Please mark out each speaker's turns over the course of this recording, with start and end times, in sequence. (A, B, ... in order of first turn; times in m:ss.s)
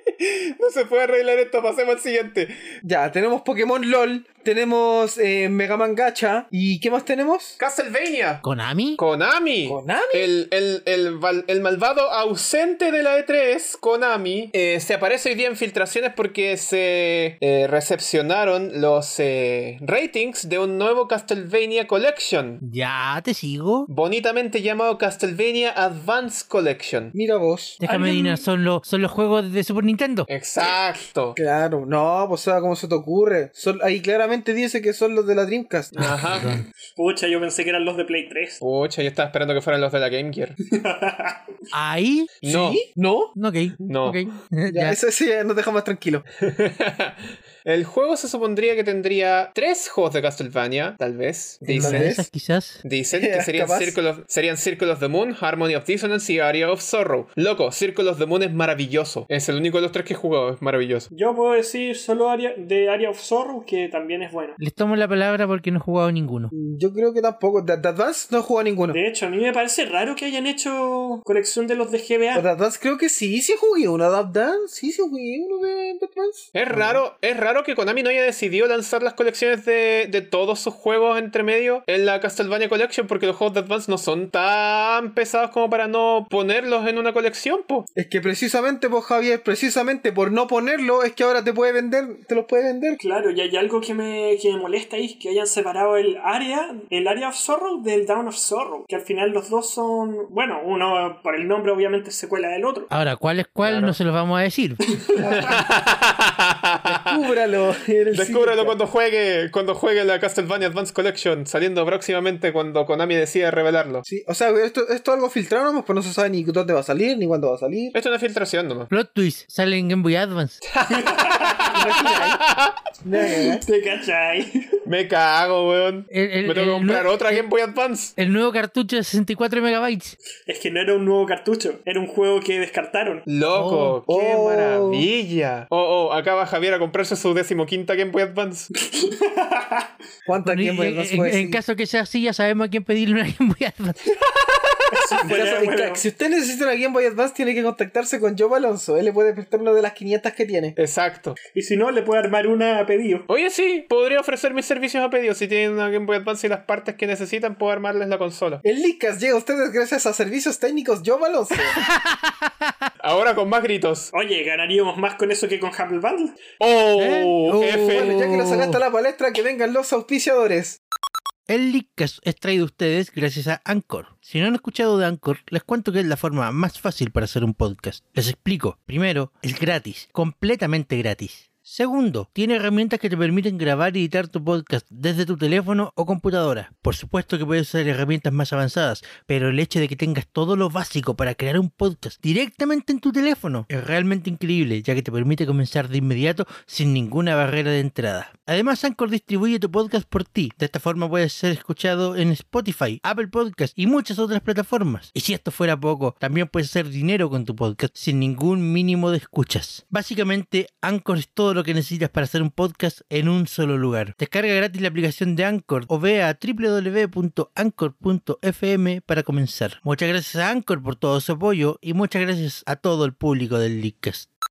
0:00.2-0:02.7 A
0:02.8-0:07.6 B
0:07.6-0:08.4 A
0:08.4-0:09.0 C
0:09.0-0:22.6 A
0:09.7-0:10.3 B
0:22.6-0:23.9 C
0:23.9-0:27.1 A
0:27.1-0:27.8 B
0:27.8-0:30.3 C
0:27.8-0:28.4 D
0:30.3-0:31.4 A
0:31.4-0:36.2 B
0:35.9-0:36.6 A
0:36.0-0:36.7 C
0:37.0-0:38.6 D
0:38.6-0:40.6 A
0:40.7-0:41.5 D
0:41.7-0:42.3 C
0:42.4-0:42.8 A
0:42.4-0:43.3 B
0:43.4-0:45.0 C
0:43.8-0:44.2 A
0:44.7-0:46.2 B
0:46.4-0:52.2 A
0:51.7-0:52.8 C
0:51.7-0:52.2 B
0:52.8-1:01.1 A
0:53.1-0:54.0 B
1:01.1-1:04.6 D
1:04.6-1:06.5 C
1:06.5-1:09.0 B
1:08.9-1:12.5 D
1:12.3-1:17.0 B
1:16.5-1:27.9 A
1:28.0-1:33.0 B
1:33.0-1:42.9 D
1:42.9-1:44.8 C
1:43.6-1:44.0 A
1:45.0-1:45.6 D
1:45.2-1:45.6 B
1:45.3-1:47.2 A
1:46.9-1:48.8 B
1:48.1-1:54.0 A
1:54.1-1:58.0 B
1:57.9-1:58.9 A
1:58.9-2:00.6 C
2:00.6-2:02.8 A
2:00.9-2:01.9 D
2:01.7-2:02.4 B
2:03.0-2:03.6 B
2:03.2-2:04.6 D
2:04.8-2:08.2 A
2:06.1-2:07.5 C
2:08.2-2:10.2 C
2:10.5-2:13.2 D
2:13.3-2:18.7 A
2:13.5-2:14.0 C
2:14.1-2:15.1 B
2:18.9-2:19.9 D
2:20.3-2:21.6 B
2:20.4-2:24.0 C
2:24.3-2:25.1 A
2:24.9-2:26.0 D
2:25.3-2:30.8 B
2:30.8-2:31.4 A
2:31.5-2:33.3 D
2:33.3-2:38.6 A
2:38.6-2:41.8 B
2:41.7-2:42.9 C
2:43.0-2:44.1 A
2:44.1-2:46.4 D
2:46.6-2:48.2 A
2:47.0-2:48.8 C
2:47.9-2:50.8 B
2:51.5-3:44.3 C